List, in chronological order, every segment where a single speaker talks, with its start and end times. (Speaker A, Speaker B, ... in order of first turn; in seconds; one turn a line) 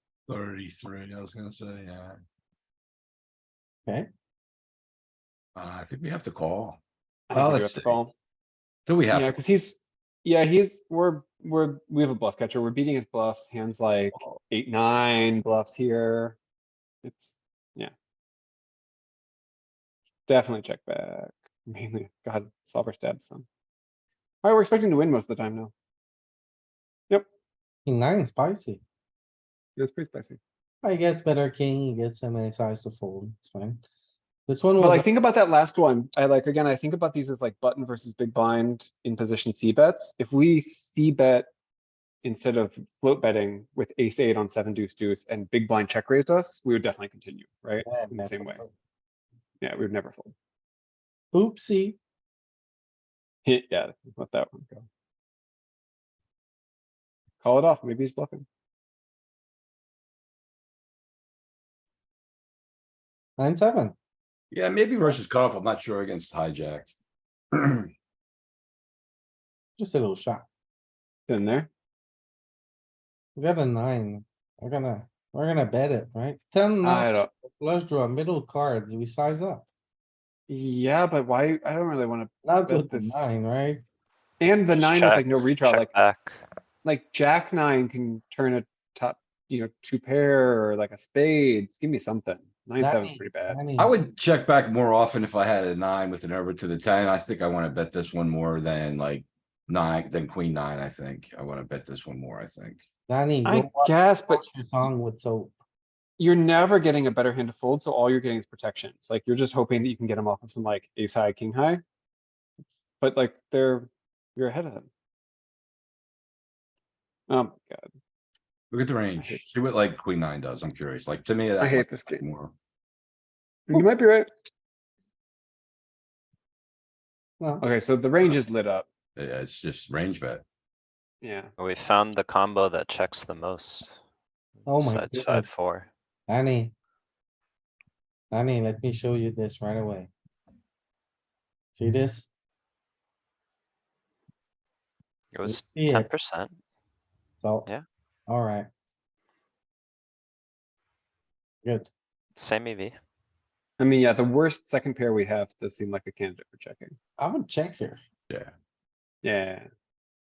Speaker A: 0.3-2.2
Speaker A: 5.6-6.8
Speaker B: 7.3-8.1
Speaker A: 7.3-8.0
Speaker A: 8.9-9.4
Speaker B: 9.1-16.4
Speaker B: 17.0-17.9
Speaker B: 20.3-23.4
Speaker B: 24.4-25.7
Speaker C: 27.8-28.8
Speaker B: 29.8-30.4
Speaker C: 30.8-33.8
Speaker C: 34.5-35.0
Speaker B: 34.8-41.5
Speaker B: 42.2-48.6
Speaker C: 47.8-48.7
Speaker B: 49.6-50.3
Speaker C: 51.3-52.0
Speaker B: 53.5-54.9
Speaker B: 57.4-58.5
Speaker C: 63.4-64.0
Speaker A: 64.5-66.9
Speaker A: 67.5-67.9
Speaker C: 69.8-70.5
Speaker B: 71.3-71.7
Speaker C: 73.3-79.7
Speaker B: 76.8-77.3
Speaker B: 80.5-83.3
Speaker C: 82.4-83.8
Speaker B: 84.4-85.9
Speaker D: 84.7-86.4
Speaker B: 86.8-93.6
Speaker C: 92.8-93.9
Speaker A: 93.8-102.8
Speaker C: 103.1-105.5
Speaker B: 103.4-104.4
Speaker B: 106.2-111.8
Speaker B: 112.6-114.9
Speaker B: 117.3-117.9
Speaker A: 118.7-122.5
Speaker B: 121.6-122.2
Speaker B: 123.7-124.3
Speaker B: 127.6-128.9
Speaker A: 129.2-130.4
Speaker B: 131.2-131.5
Speaker D: 131.6-134.0
Speaker C: 134.7-135.5
Speaker D: 134.7-135.9
Speaker C: 136.3-136.7
Speaker C: 138.3-140.1
Speaker C: 141.8-142.3
Speaker D: 145.3-146.6
Speaker C: 145.4-146.1
Speaker C: 147.4-147.7
Speaker C: 148.3-148.7
Speaker C: 151.7-151.9
Speaker D: 152.4-153.0
Speaker B: 153.8-156.9
Speaker C: 157.2-158.0
Speaker B: 159.2-159.7